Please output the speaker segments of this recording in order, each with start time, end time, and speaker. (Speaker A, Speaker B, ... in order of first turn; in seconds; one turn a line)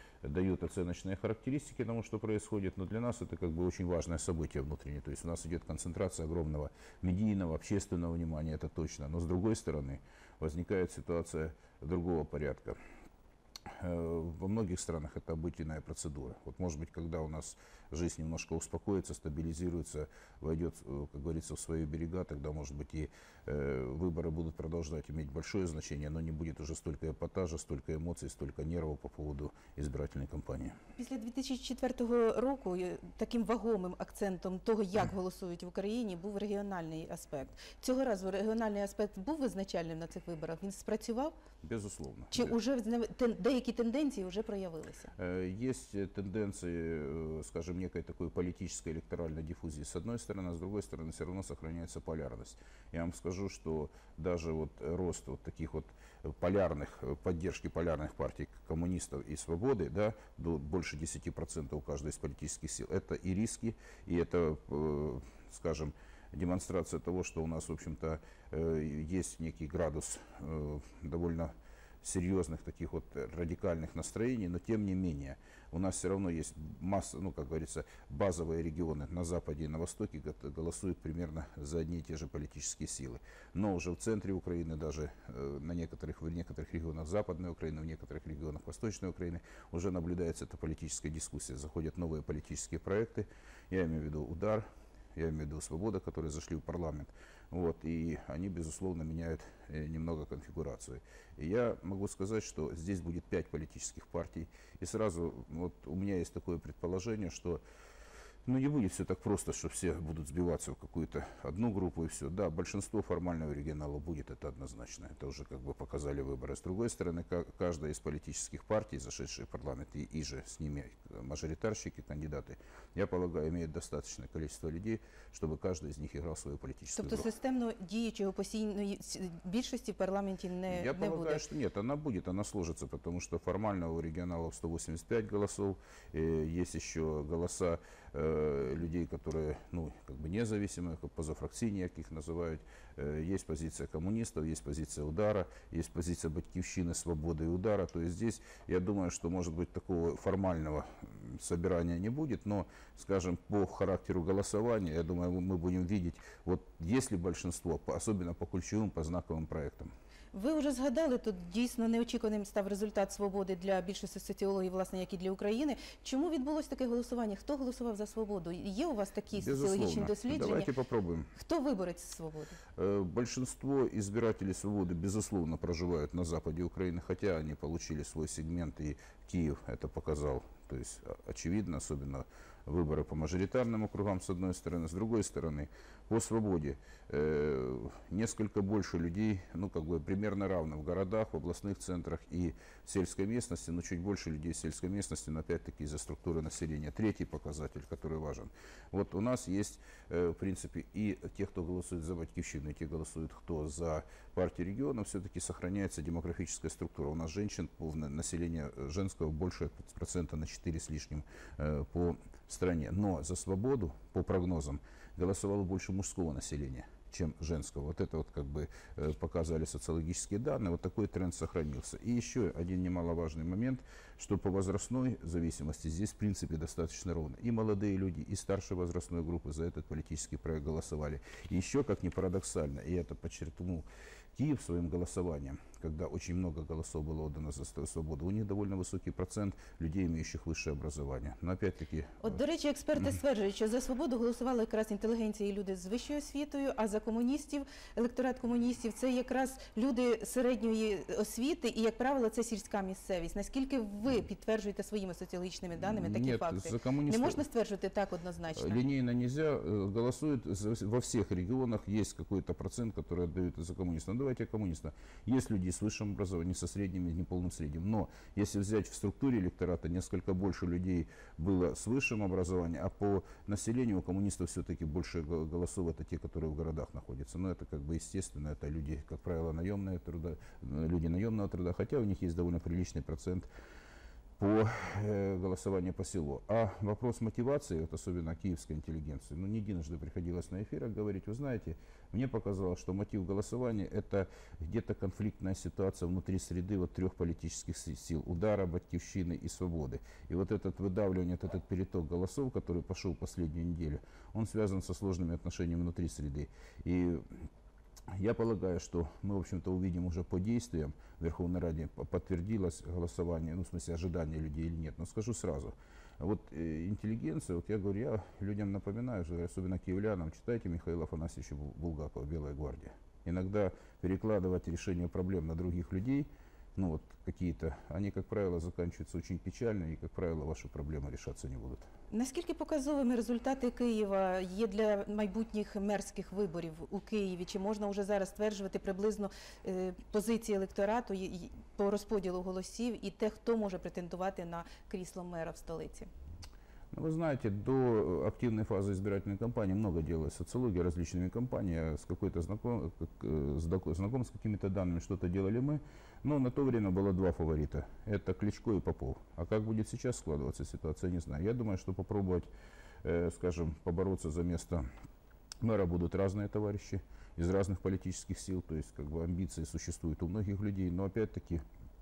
Speaker A: 0.2-12.8
Speaker A: 13.7-30.8
Speaker B: 31.0-41.3
Speaker A: 41.6-42.6
Speaker B: 42.3-45.1
Speaker A: 45.2-107.6
Speaker A: 108.5-127.3
Speaker B: 127.0-131.4
Speaker A: 130.7-159.9
Speaker B: 160.3-170.7
Speaker A: 169.3-171.3
Speaker B: 171.3-172.6
Speaker A: 172.8-242.4
Speaker B: 242.2-258.8
Speaker A: 255.7-257.4
Speaker A: 258.6-283.5
Speaker A: 284.4-307.4
Speaker A: 308.1-331.9
Speaker B: 332.1-346.1
Speaker A: 346.9-362.5
Speaker A: 363.0-364.9
Speaker A: 365.6-371.6